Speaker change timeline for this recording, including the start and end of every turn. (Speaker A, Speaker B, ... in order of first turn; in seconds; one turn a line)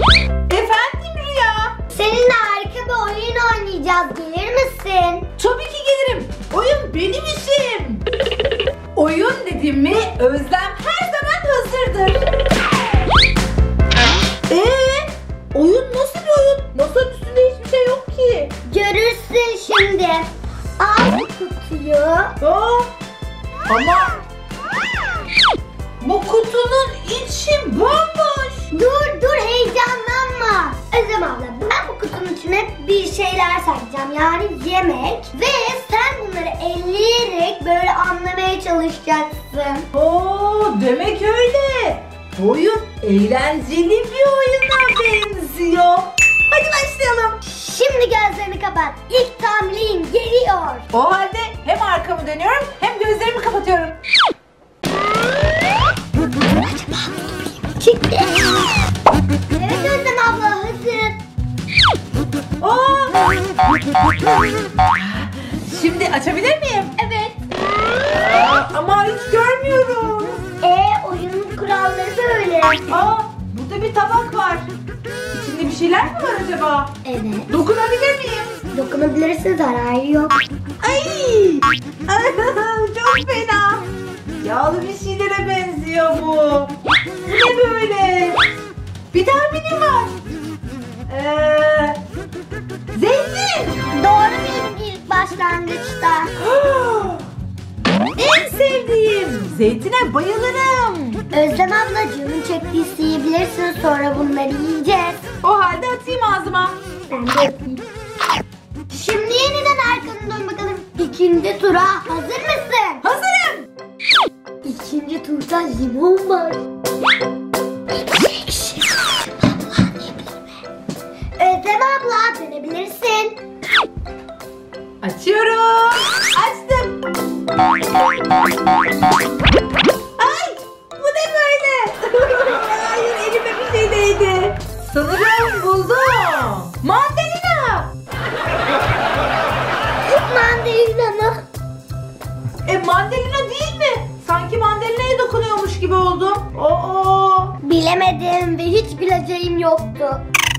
Speaker A: 0.5-1.8
Speaker B: 1.9-5.3
Speaker A: 5.4-8.0
Speaker A: 8.9-12.3
Speaker A: 14.5-18.5
Speaker B: 18.7-22.3
Speaker A: 22.4-22.9
Speaker A: 23.7-24.2
Speaker A: 26.0-28.7
Speaker B: 28.7-39.9
Speaker A: 39.9-47.4
Speaker B: 47.4-50.9
Speaker A: 50.9-54.0
Speaker B: 56.5-58.7
Speaker B: 59.5-61.2
Speaker A: 62.6-63.4
Speaker A: 65.0-67.0
Speaker B: 67.0-67.4
Speaker A: 68.1-70.4
Speaker B: 70.6-73.0
Speaker A: 72.9-74.7
Speaker A: 75.3-76.9
Speaker B: 77.0-77.5
Speaker A: 77.5-78.5
Speaker B: 78.7-80.3
Speaker A: 80.8-83.9
Speaker A: 84.4-86.7
Speaker A: 87.3-88.4
Speaker A: 89.1-90.2
Speaker A: 91.1-92.0
Speaker A: 92.9-93.8
Speaker B: 93.9-96.3
Speaker A: 96.4-97.2
Speaker A: 98.2-101.2
Speaker B: 101.3-105.2
Speaker A: 105.4-106.8
Speaker B: 107.1-107.8
Speaker B: 108.9-113.0
Speaker A: 113.0-113.7
Speaker B: 114.6-116.6
Speaker B: 117.9-120.4
Speaker B: 121.4-123.4
Speaker A: 125.0-127.0
Speaker A: 130.2-137.9
Speaker B: 140.0-141.5
Speaker A: 142.7-147.6
Speaker B: 147.6-150.2